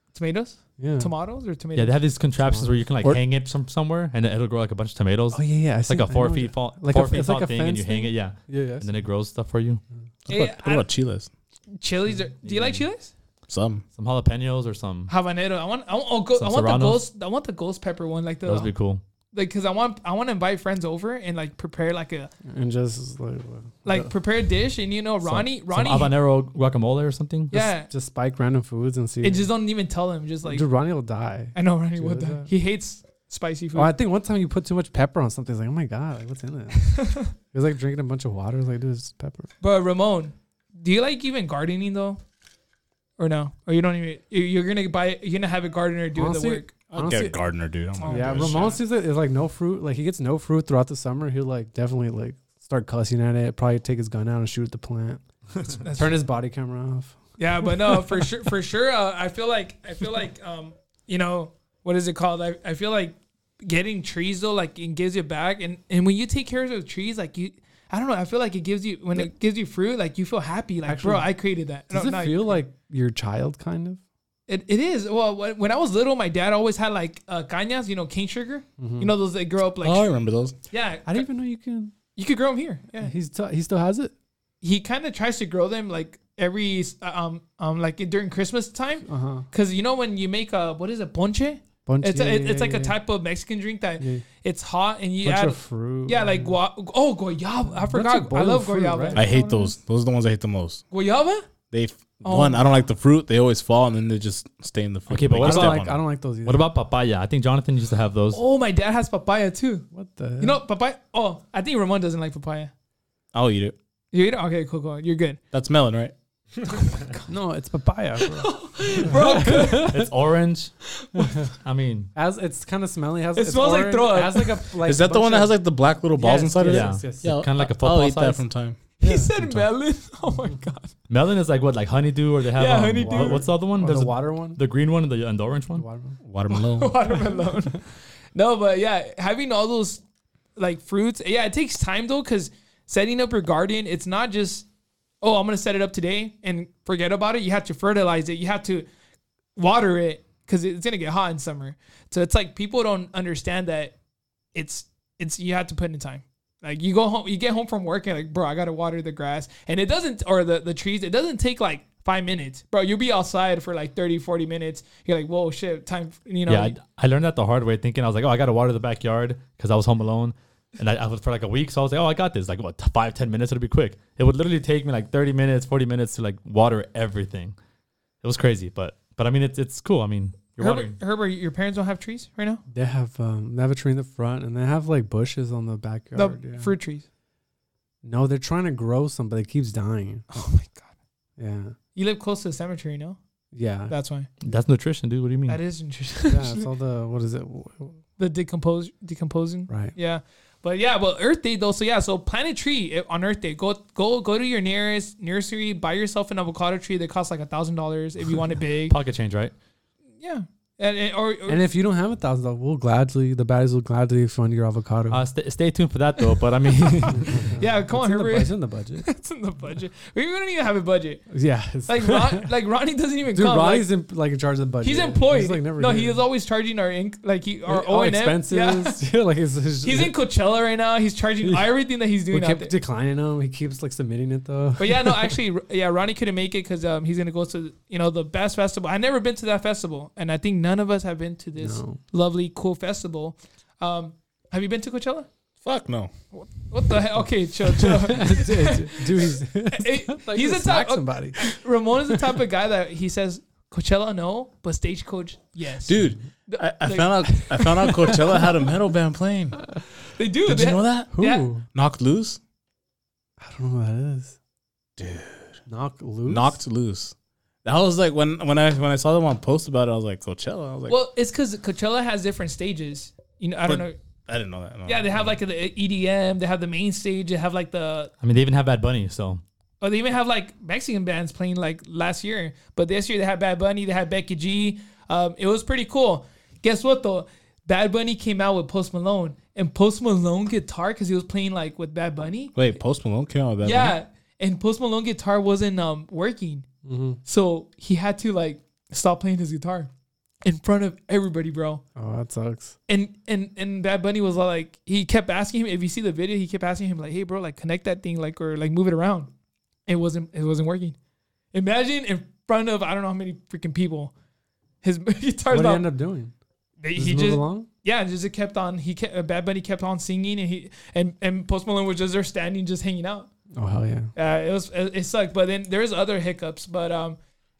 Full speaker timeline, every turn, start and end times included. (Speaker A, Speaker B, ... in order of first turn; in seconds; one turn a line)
Speaker A: 0.1-2.0
Speaker B: 0.8-1.1
Speaker C: 1.8-9.8
Speaker B: 2.4-2.8
Speaker B: 5.3-9.0
Speaker D: 10.2-11.3
Speaker A: 10.3-10.9
Speaker A: 11.8-13.1
Speaker C: 12.4-12.8
Speaker D: 13.5-13.8
Speaker C: 14.0-15.1
Speaker A: 15.1-18.7
Speaker C: 16.4-17.1
Speaker C: 18.4-19.0
Speaker A: 19.3-22.3
Speaker B: 22.5-24.1
Speaker A: 23.8-26.1
Speaker C: 25.7-27.7
Speaker A: 27.5-27.9
Speaker B: 27.9-29.5
Speaker A: 29.2-30.6
Speaker B: 30.4-32.5
Speaker A: 31.6-33.9
Speaker B: 33.8-39.5
Speaker A: 37.0-37.3
Speaker A: 39.6-42.2
Speaker A: 43.2-46.7
Speaker B: 46.2-47.4
Speaker D: 46.9-48.8
Speaker A: 48.0-48.8
Speaker B: 48.1-55.2
Speaker A: 55.8-56.2
Speaker B: 55.9-57.2
Speaker A: 57.4-72.6
Speaker B: 70.8-71.3
Speaker B: 71.9-74.0
Speaker A: 74.5-80.1
Speaker B: 78.8-79.1
Speaker D: 79.8-80.6
Speaker A: 80.7-81.3
Speaker B: 81.1-81.9
Speaker A: 82.2-83.1
Speaker B: 83.0-84.1
Speaker A: 84.6-99.7
Speaker B: 89.1-89.5
Speaker B: 91.9-93.0
Speaker B: 95.2-96.5
Speaker B: 97.8-99.3
Speaker D: 99.2-100.8
Speaker A: 100.9-101.5
Speaker D: 101.7-106.0
Speaker A: 102.2-102.7
Speaker C: 105.1-105.9
Speaker B: 105.4-106.7
Speaker C: 106.5-108.4
Speaker A: 108.3-109.9
Speaker B: 109.9-110.6
Speaker A: 110.4-112.7
Speaker D: 113.3-113.8
Speaker A: 114.1-115.4
Speaker D: 115.5-116.1
Speaker B: 117.3-118.5
Speaker A: 118.3-120.0
Speaker B: 119.1-120.0
Speaker C: 119.1-120.8
Speaker B: 121.2-121.5
Speaker C: 121.6-122.1
Speaker B: 122.2-125.6
Speaker A: 123.4-124.7
Speaker D: 124.8-128.8
Speaker B: 126.2-127.3
Speaker C: 126.6-128.4
Speaker B: 129.0-129.3
Speaker A: 129.0-130.9
Speaker D: 129.3-129.7
Speaker C: 131.1-135.8
Speaker A: 132.6-133.4
Speaker B: 133.0-134.6
Speaker B: 135.8-136.2
Speaker D: 136.2-137.0
Speaker A: 136.5-140.0
Speaker A: 140.6-144.7
Speaker A: 145.2-148.9
Speaker A: 149.6-153.9
Speaker A: 154.5-166.8
Speaker C: 166.5-177.6
Speaker C: 178.2-181.0
Speaker A: 180.6-182.6
Speaker B: 182.7-186.7
Speaker A: 186.2-187.1
Speaker B: 188.0-190.4
Speaker A: 190.3-190.9
Speaker B: 191.4-191.8
Speaker A: 191.9-193.2
Speaker B: 193.5-193.9
Speaker A: 193.9-194.3
Speaker C: 194.4-195.6
Speaker A: 195.5-196.7
Speaker B: 196.3-198.0
Speaker A: 198.2-209.0
Speaker B: 199.7-199.9
Speaker C: 208.9-209.5
Speaker A: 210.2-211.6
Speaker B: 211.5-215.2
Speaker C: 215.1-217.5
Speaker A: 216.3-221.3
Speaker B: 217.2-219.1
Speaker B: 221.3-222.5
Speaker A: 221.9-223.9
Speaker B: 223.3-226.2
Speaker A: 224.8-229.0
Speaker B: 227.7-230.2
Speaker A: 229.8-232.7
Speaker B: 231.4-231.7
Speaker B: 232.3-235.4
Speaker A: 234.8-245.3
Speaker B: 241.6-242.0
Speaker D: 245.6-246.1
Speaker A: 246.3-258.5
Speaker B: 247.8-252.2
Speaker D: 255.9-259.6
Speaker A: 260.1-261.5
Speaker D: 260.4-262.4
Speaker B: 261.1-261.6
Speaker B: 263.4-264.4
Speaker D: 265.0-265.6
Speaker B: 265.7-266.6
Speaker D: 266.2-271.0
Speaker A: 270.9-274.0
Speaker D: 273.6-275.3
Speaker A: 274.9-278.1
Speaker C: 278.2-279.4
Speaker A: 279.8-292.6
Speaker D: 292.6-294.0
Speaker A: 293.6-296.6
Speaker B: 296.8-297.2
Speaker A: 297.2-299.9
Speaker A: 300.4-301.8
Speaker B: 302.0-302.8
Speaker A: 302.9-309.3
Speaker A: 309.9-311.0
Speaker A: 311.5-314.1
Speaker A: 314.8-315.9
Speaker B: 315.5-316.3
Speaker A: 316.8-323.3
Speaker B: 317.0-317.7
Speaker B: 323.5-324.1
Speaker A: 324.2-327.2